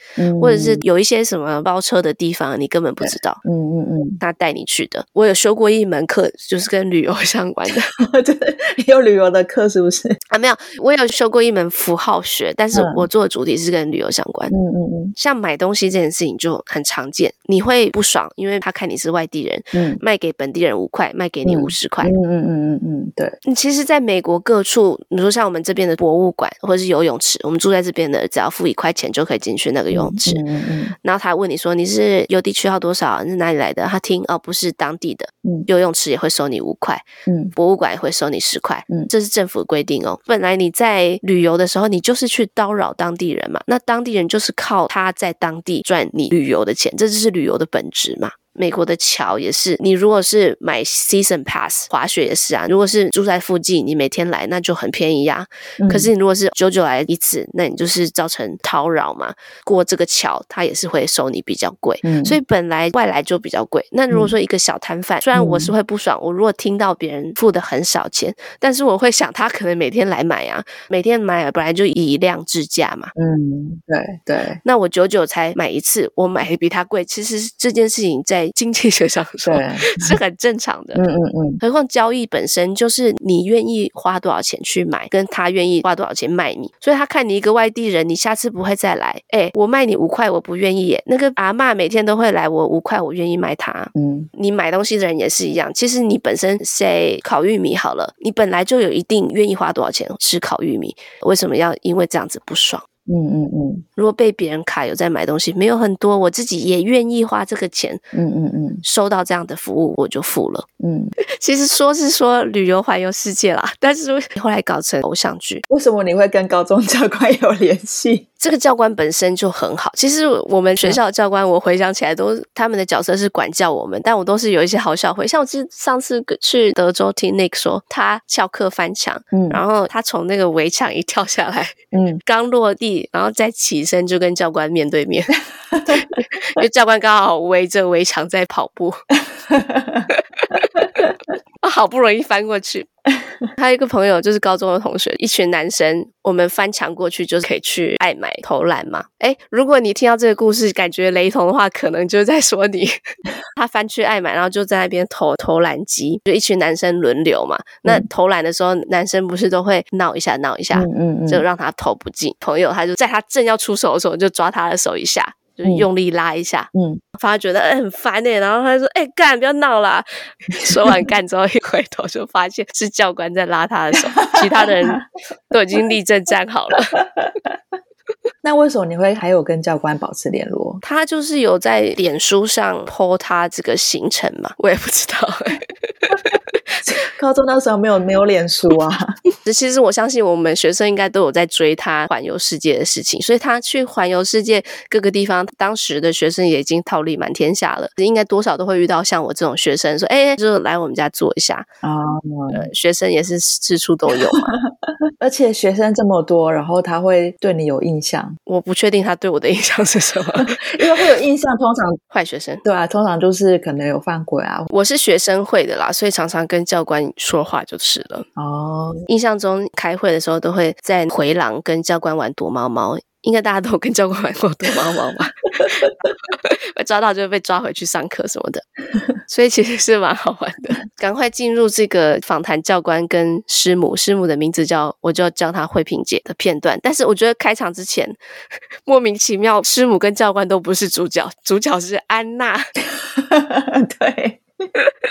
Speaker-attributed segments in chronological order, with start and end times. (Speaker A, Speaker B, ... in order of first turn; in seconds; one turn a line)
Speaker A: 0.2-0.8
Speaker B: 0.4-3.4
Speaker A: 3.0-4.2
Speaker B: 4.2-7.9
Speaker A: 8.0-10.2
Speaker B: 10.3-14.5
Speaker A: 12.7-13.1
Speaker A: 14.5-15.2
Speaker B: 15.2-22.1
Speaker A: 19.7-20.0
Speaker A: 21.4-23.4
Speaker B: 23.4-30.4
Speaker A: 29.9-30.9
Speaker B: 31.0-73.1
Speaker A: 37.3-37.5
Speaker A: 55.8-56.1
Speaker A: 62.0-62.4
Speaker A: 65.3-65.7
Speaker A: 73.2-74.6
Speaker B: 74.6-81.0
Speaker A: 79.4-80.2
Speaker A: 81.0-81.6
Speaker B: 81.6-102.8
Speaker A: 94.0-94.3
Speaker A: 103.1-103.8
Speaker B: 104.0-108.0
Speaker A: 108.1-108.8
Speaker B: 108.8-110.7
Speaker A: 110.8-111.1
Speaker B: 111.4-115.6
Speaker A: 115.7-118.3
Speaker B: 118.4-135.3
Speaker A: 129.3-129.6
Speaker A: 131.9-132.2
Speaker A: 135.7-136.1
Speaker B: 135.9-139.0
Speaker A: 139.2-141.1
Speaker B: 140.1-140.7
Speaker B: 141.6-142.9
Speaker B: 143.6-152.9
Speaker B: 153.6-177.0
Speaker A: 160.7-161.4
Speaker A: 166.7-167.0
Speaker A: 170.6-171.0
Speaker A: 174.2-175.0
Speaker A: 176.9-177.6
Speaker A: 178.4-180.8
Speaker B: 180.8-186.3
Speaker A: 186.8-189.2
Speaker B: 189.4-201.7
Speaker A: 201.8-202.7
Speaker B: 202.5-204.5
Speaker A: 204.3-204.7
Speaker A: 205.2-208.4
Speaker B: 208.5-210.6
Speaker A: 210.4-212.0
Speaker B: 212.1-212.7
Speaker A: 212.6-214.7
Speaker B: 214.7-218.3
Speaker A: 218.4-219.1
Speaker B: 219.1-228.6
Speaker B: 229.3-238.2
Speaker B: 238.9-242.6
Speaker A: 242.9-244.4